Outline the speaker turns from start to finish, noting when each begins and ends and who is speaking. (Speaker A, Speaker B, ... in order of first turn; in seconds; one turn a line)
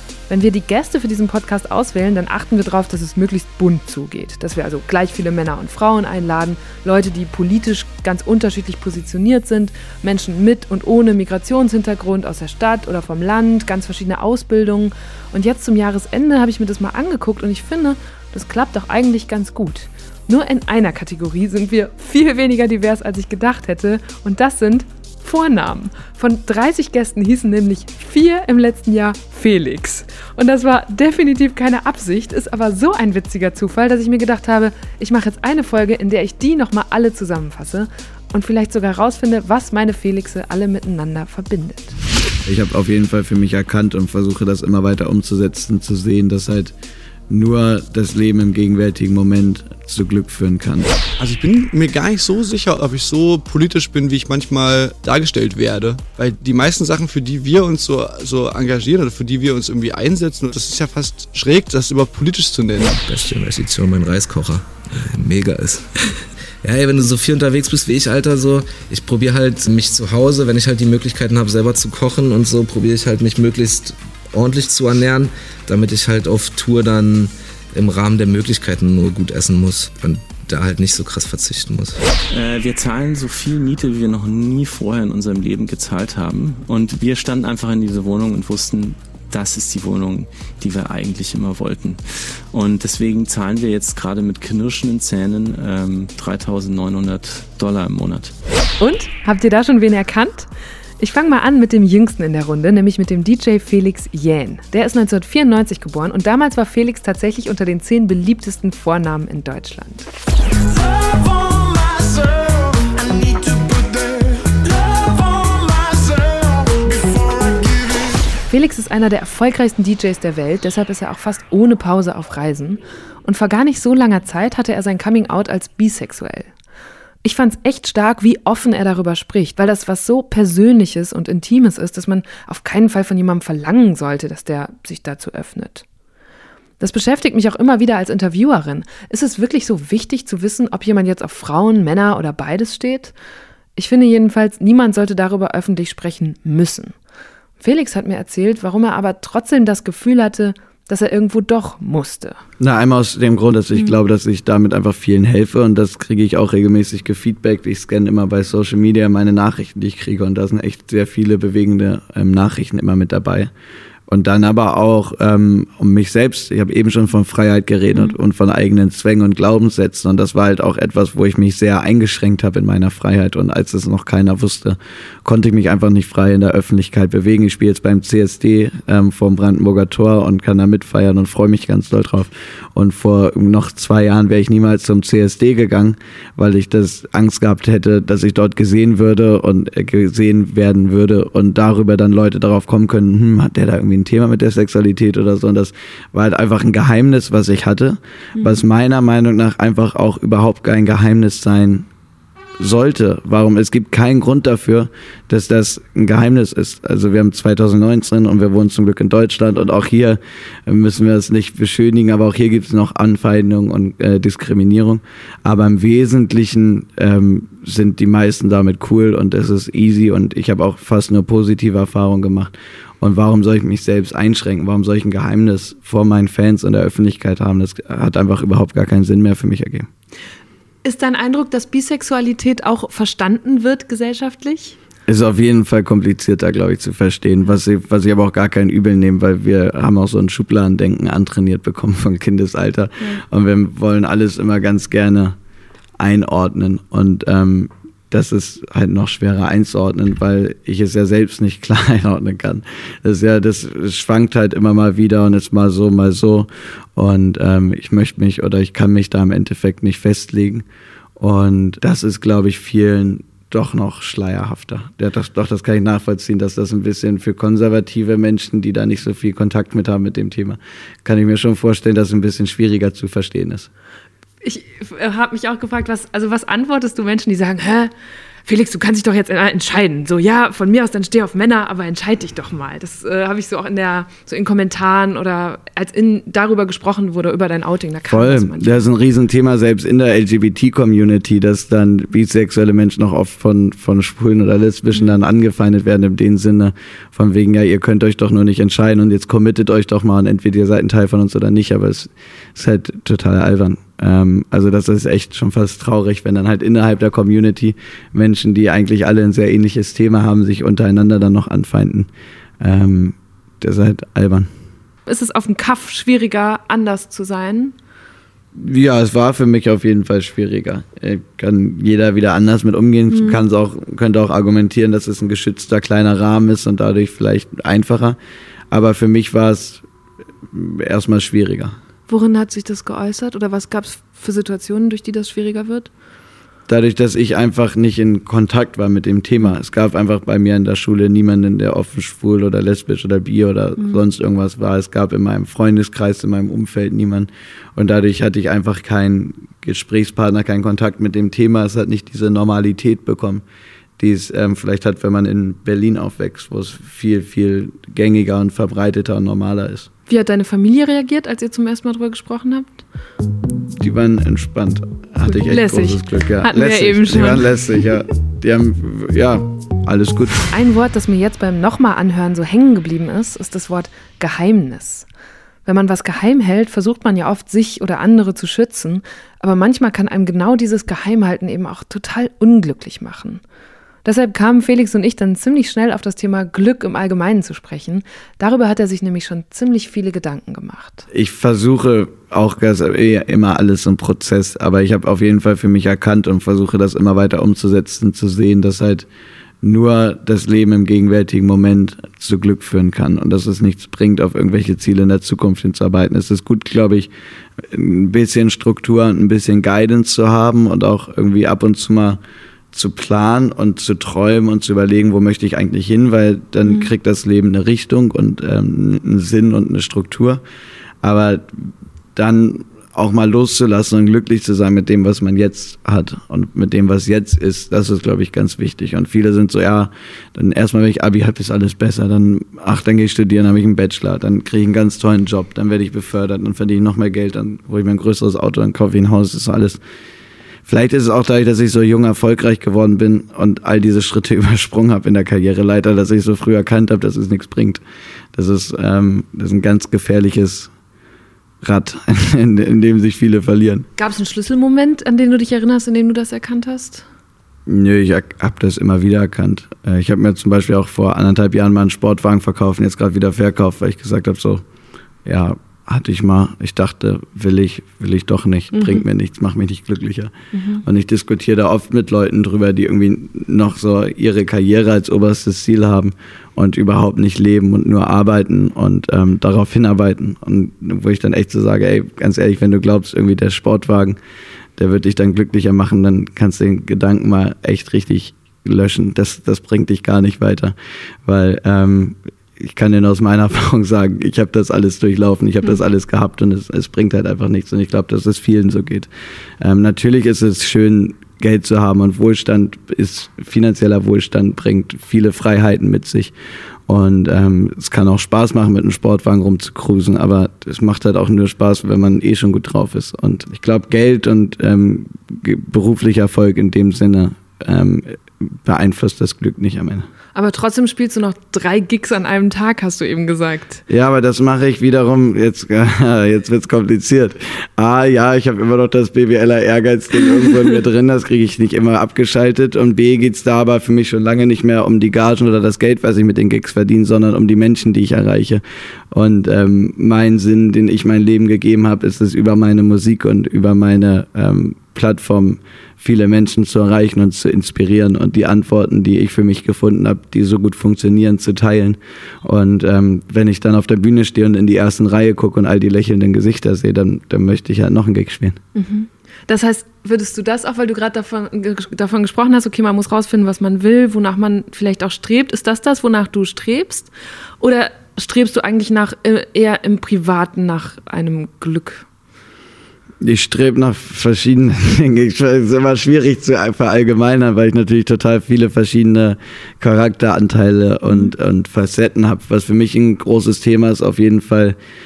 Speaker A: 0.3-42.0
Speaker B: 42.5-46.7
Speaker B: 47.3-50.9
Speaker C: 51.2-63.0
Speaker D: 63.1-65.9
Speaker D: 66.6-82.0
Speaker E: 82.3-98.3
Speaker A: 98.8-110.1
Speaker A: 118.5-126.5
Speaker A: 127.2-135.8
Speaker A: 136.8-143.1
Speaker A: 143.8-146.9
Speaker A: 147.6-152.4
Speaker B: 152.6-163.5
Speaker B: 164.1-201.9
Speaker A: 198.4-198.6
Speaker B: 202.6-229.9
Speaker A: 230.8-234.8
Speaker B: 235.1-245.4
Speaker B: 246.0-260.6
Speaker B: 261.2-273.7
Speaker A: 274.4-277.9
Speaker A: 278.5-288.8
Speaker B: 288.1-312.1
Speaker A: 294.9-295.2
Speaker B: 312.6-314.5
Speaker A: 315.1-317.8
Speaker B: 318.6-328.2
Speaker A: 323.1-323.4
Speaker B: 328.7-329.8
Speaker B: 330.5-331.8
Speaker A: 332.1-335.9
Speaker B: 336.7-353.4
Speaker A: 343.8-344.0
Speaker B: 354.0-359.9
Speaker A: 360.1-362.8
Speaker B: 363.8-370.4
Speaker A: 365.2-367.5
Speaker A: 370.5-375.1
Speaker A: 375.6-383.4
Speaker A: 384.1-391.1
Speaker B: 391.1-399.1
Speaker B: 399.6-412.2
Speaker B: 412.7-420.4
Speaker A: 416.6-416.9
Speaker B: 421.0-439.8
Speaker B: 440.7-447.8
Speaker B: 448.3-450.7
Speaker B: 451.6-453.9
Speaker A: 454.0-457.1
Speaker B: 457.7-464.6
Speaker B: 465.2-484.2
Speaker A: 468.7-469.1
Speaker A: 470.5-470.8
Speaker B: 484.8-499.1
Speaker B: 499.6-506.3
Speaker B: 506.9-520.1
Speaker A: 520.4-523.8
Speaker B: 523.9-558.6
Speaker A: 558.8-572.1
Speaker B: 573.2-584.8
Speaker A: 581.1-581.3